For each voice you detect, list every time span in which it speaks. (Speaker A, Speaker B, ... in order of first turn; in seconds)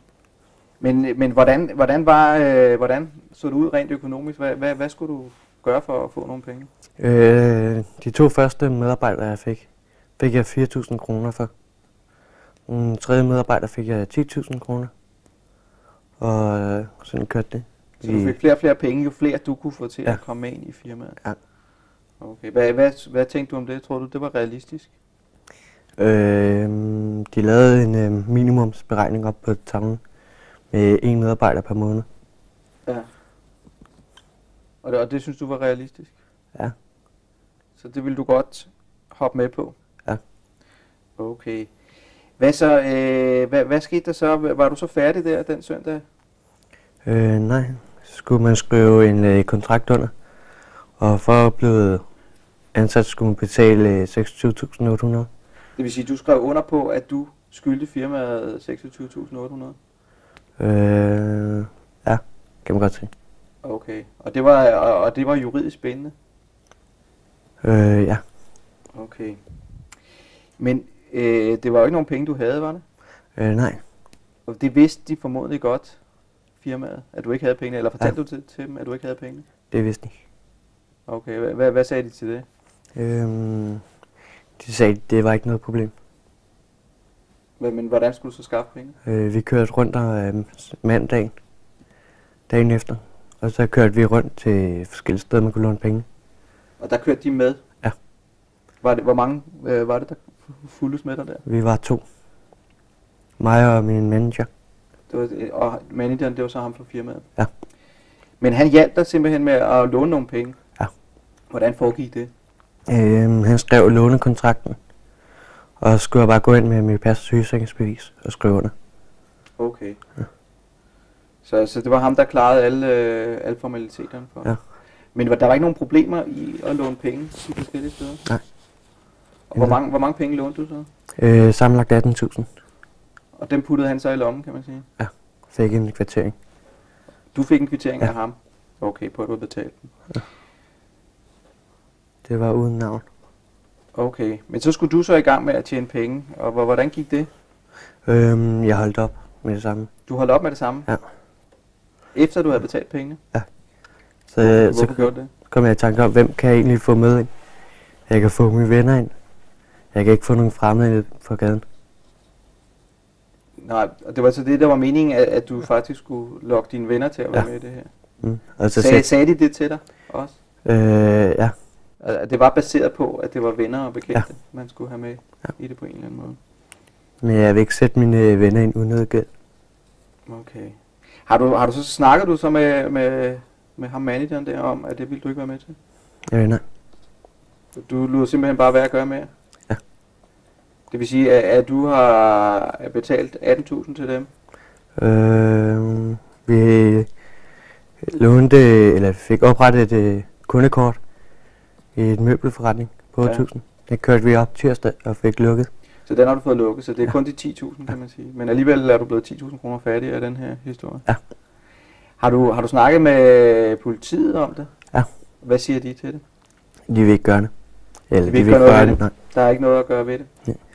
Speaker A: 0.8-6.7, 18.0-21.2, 22.2-24.9, 34.8-36.1, 37.8-39.8, 41.2-41.7, 42.4-46.0, 55.8-59.8, 63.6-66.1, 68.9-69.4, 70.6-72.8, 74.5-76.0, 76.6-79.4, 81.1-82.4, 87.6-89.0, 96.8-97.6, 98.8-101.4, 105.1-107.2, 108.4-110.5, 111.5-112.3, 119.6-120.0, 121.4-124.6, 125.1-128.2, 129.5-130.9, 133.3-134.8, 137.3-139.9, 143.9-147.3, 150.1-150.9, 152.1-153.2, 154.4-155.3, 163.6-167.9, 168.7-170.3, 172.0-176.4, 180.3-185.8, 187.7-189.3, 190.9-194.3, 206.1-211.1, 212.2-214.7, 215.4-216.2, 218.2-220.3
Speaker B: 7.0-11.5, 12.7-14.9, 16.2-18.3, 26.0-30.0, 30.7-32.0, 47.0-50.1, 51.0-52.0, 52.7-55.3, 60.6-63.1, 67.6-68.2, 73.4-73.8, 79.7-80.1, 82.9-83.8, 84.6-85.9, 89.0-91.3, 92.5-96.0, 101.5-102.0, 103.4-104.5, 112.9-114.8, 115.8-118.7, 131.2-132.5, 135.0-136.3, 142.2-143.0, 148.1-149.9, 154.3-157.3, 158.1-159.1, 159.9-161.6, 168.2-169.1, 170.6-171.5, 177.2-179.3, 186.3-186.6, 194.9-197.1, 198.0-201.0, 201.9-205.7, 216.9-217.5, 218.1-219.1